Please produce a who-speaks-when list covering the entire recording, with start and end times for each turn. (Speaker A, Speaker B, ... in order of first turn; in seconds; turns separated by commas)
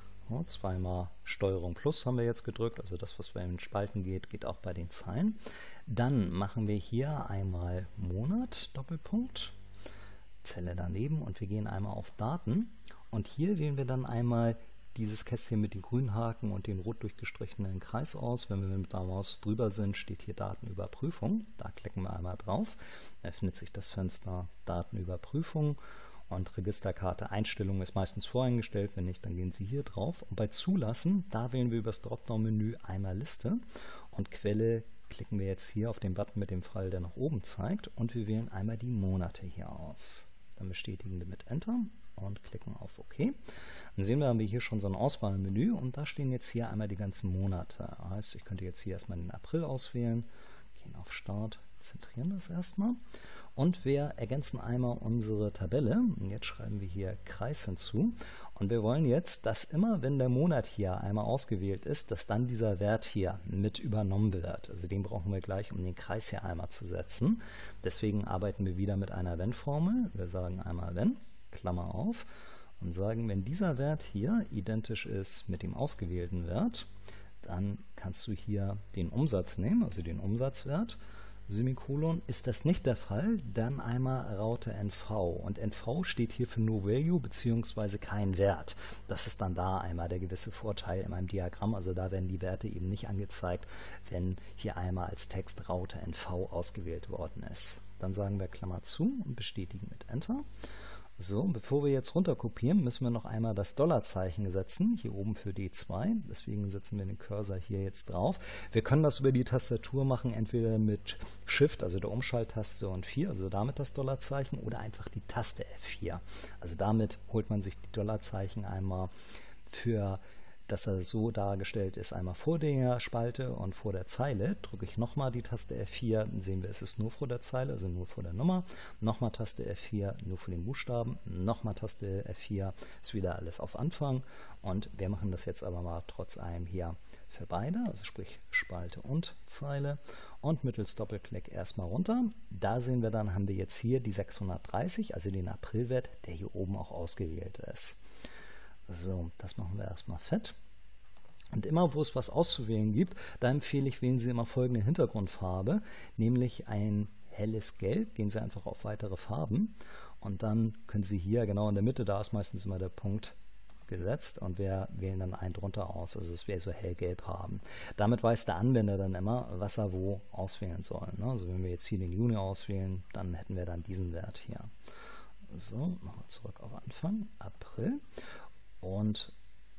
Speaker A: 0.3-9.6, Speaker A: 10.4-33.6, Speaker A: 34.1-43.4, Speaker A: 44.0-53.0, Speaker A: 53.5-72.3, Speaker A: 72.8-76.9, Speaker A: 77.4-100.4, Speaker A: 101.2-119.1, Speaker A: 119.7-148.0, Speaker A: 148.9-150.6, Speaker A: 151.5-163.3, Speaker A: 163.9-174.7, Speaker A: 175.5-178.0, Speaker A: 178.8-179.3